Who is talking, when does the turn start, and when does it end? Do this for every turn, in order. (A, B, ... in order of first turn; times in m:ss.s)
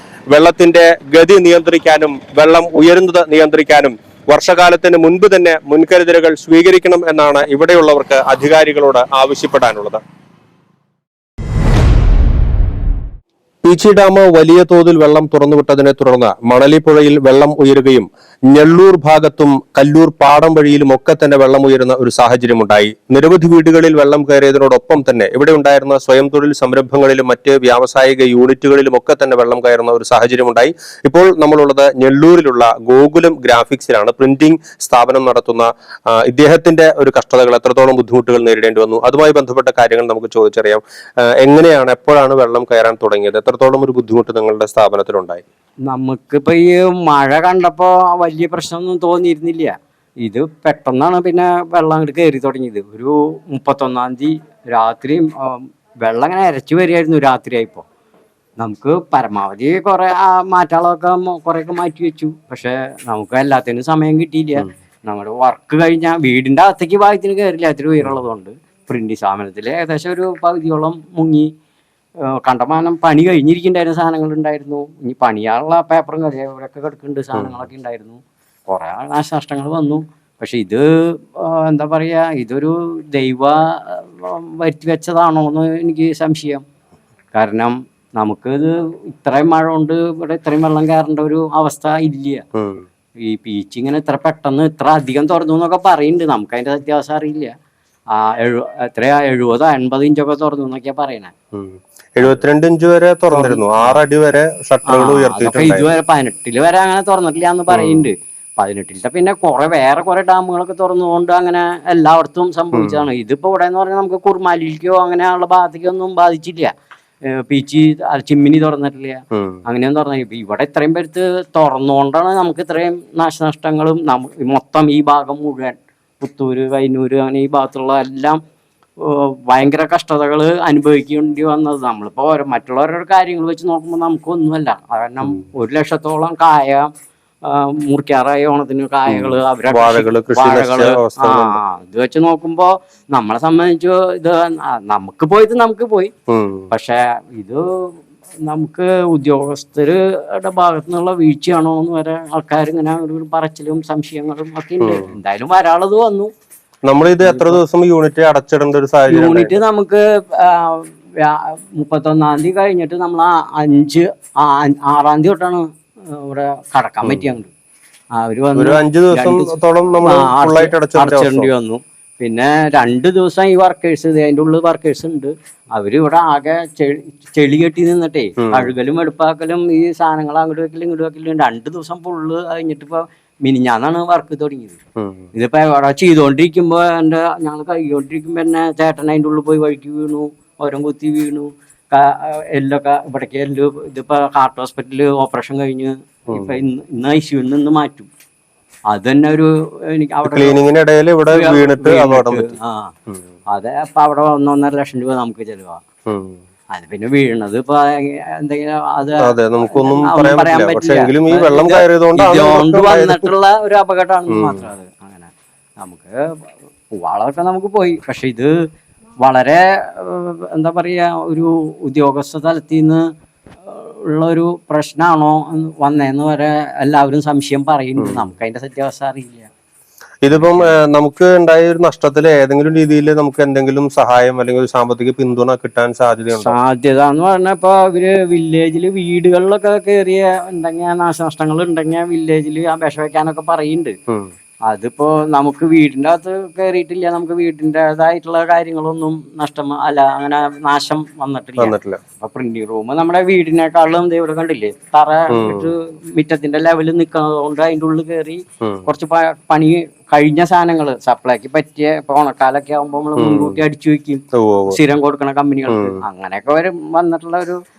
0:00.3-0:10.0 A
0:13.6-0:40.8 A
0:41.4-0:45.4 A
0:45.9-0:57.8 B
0:58.6-1:11.5 B
1:12.4-1:20.9 B
1:21.4-1:26.6 B
1:27.4-1:32.4 B
1:32.6-1:32.9 A
1:33.2-1:37.5 B
1:38.1-1:41.3 B
1:41.5-1:45.9 A
1:43.3-1:44.0 B
1:44.9-1:56.7 B
1:47.7-1:48.1 A
1:52.8-1:53.0 A
1:57.3-2:08.4 B
1:59.3-1:59.6 A
2:09.0-2:16.9 B
2:17.4-2:26.1 B
2:19.1-2:21.6 A
2:26.3-2:26.7 A
2:26.7-2:27.6 B
2:28.4-2:36.3 B
2:34.8-2:35.1 A
2:36.9-2:39.6 A
2:37.2-2:37.6 B
2:39.1-2:47.5 B
2:47.0-2:47.3 A
2:48.2-2:49.5 B
2:48.6-2:51.5 A
2:50.0-3:04.8 B
2:58.4-2:58.7 A
3:05.0-3:05.3 A
3:05.3-3:18.1 B
3:16.3-3:16.6 A
3:18.9-3:20.6 B
3:20.2-3:22.5 A
3:21.3-3:22.9 B
3:23.5-3:25.8 B
3:26.1-3:26.4 A
3:26.7-3:36.2 B
3:29.2-3:33.3 A
3:34.3-3:34.6 A
3:36.9-3:38.5 B
3:39.2-3:43.0 B
3:43.7-3:49.5 B
3:48.0-3:48.2 A
3:50.2-3:56.6 A
3:50.3-3:50.8 B
3:56.4-4:04.0 B
4:04.7-4:27.6 B
4:11.6-4:12.0 A
4:15.3-4:15.7 A
4:18.6-4:18.9 A
4:23.2-4:23.6 A
4:24.3-4:24.8 A
4:25.7-4:26.0 A